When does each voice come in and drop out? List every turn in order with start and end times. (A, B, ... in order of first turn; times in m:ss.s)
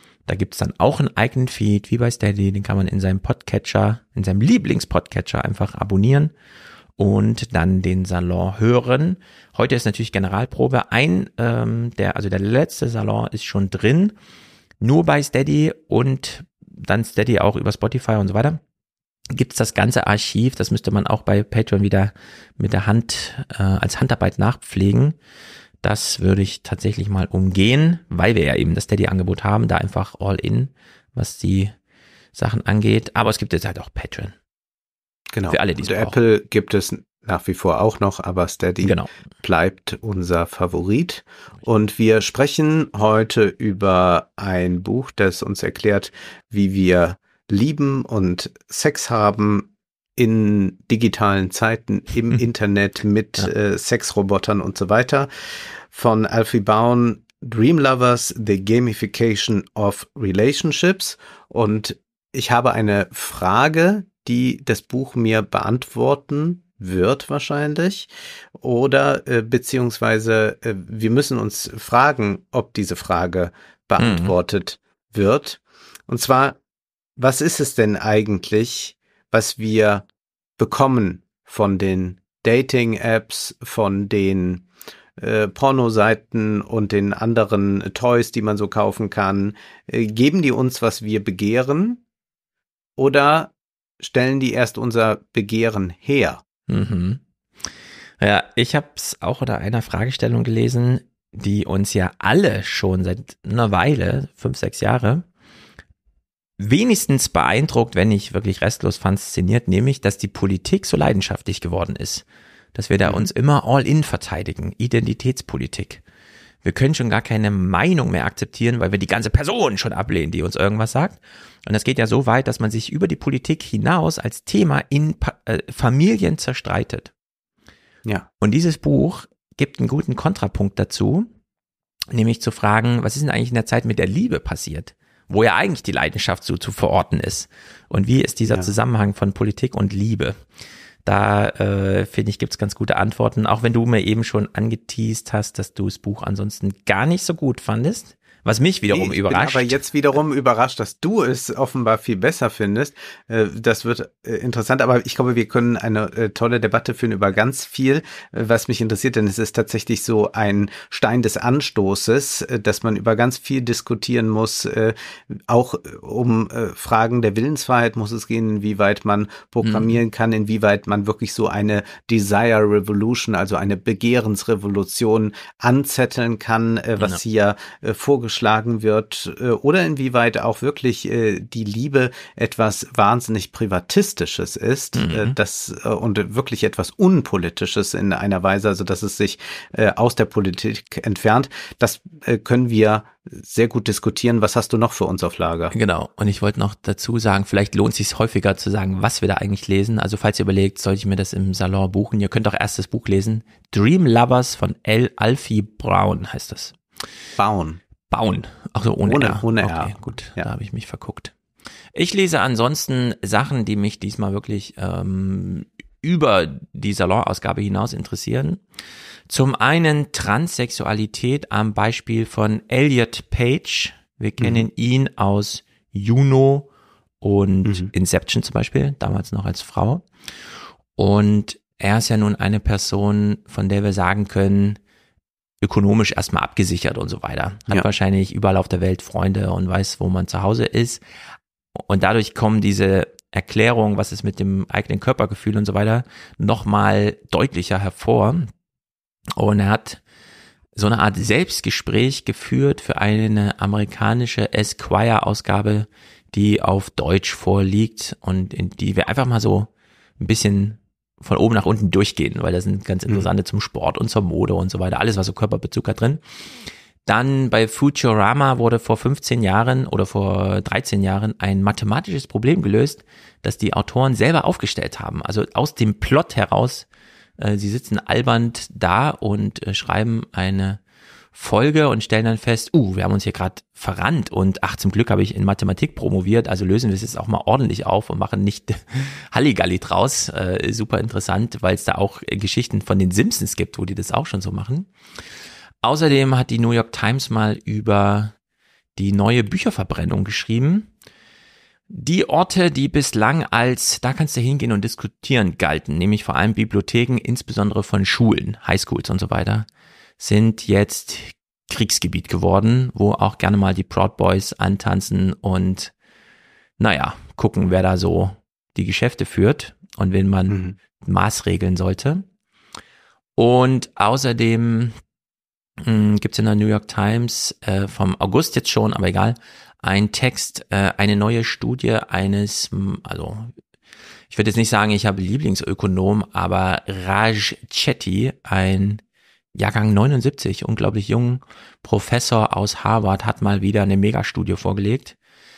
0:00.3-0:06.3 A
0:07.0-0:14.2 A
0:14.8-0:18.6 A
0:19.3-0:25.2 A
0:25.8-0:31.7 A
0:32.4-0:34.4 A
0:35.3-1:16.6 B
0:35.5-0:36.2 A
0:38.8-0:39.1 A
1:14.0-1:14.4 A
1:17.2-1:20.1 B
1:20.6-1:24.7 B
1:25.2-1:32.0 B
1:33.0-1:36.4 B
1:36.7-1:37.2 A
1:38.2-1:45.3 A
1:46.6-1:56.0 A
1:56.6-2:07.1 A
2:08.4-2:11.3 A
2:12.1-2:20.4 A
2:21.0-2:29.8 A
2:28.9-3:15.7 B
2:49.6-2:49.9 A
3:05.0-3:05.4 A
3:15.7-3:26.8 A
3:27.4-3:27.8 B
3:28.1-3:31.3 A
3:29.1-3:30.5 B
3:32.0-3:38.6 A
3:39.3-3:46.7 A
3:44.4-3:44.7 B
3:47.2-3:50.0 A
3:47.6-3:47.9 B
3:51.0-3:54.8 A
3:55.6-4:01.0 A
4:01.9-4:08.5 A
4:09.4-4:10.0 A
4:10.8-4:26.2 A
4:27.1-4:36.9 A
4:37.4-4:40.8 A
4:41.3-4:54.9 A
4:55.8-4:58.3 A
4:59.0-5:00.9 A
5:01.9-5:09.7 A
5:10.2-5:15.9 A
5:16.8-5:22.3 A
5:20.5-5:20.8 B
5:23.4-5:25.0 A
5:25.8-5:33.5 A
5:34.3-5:39.0 A
5:39.6-5:45.2 A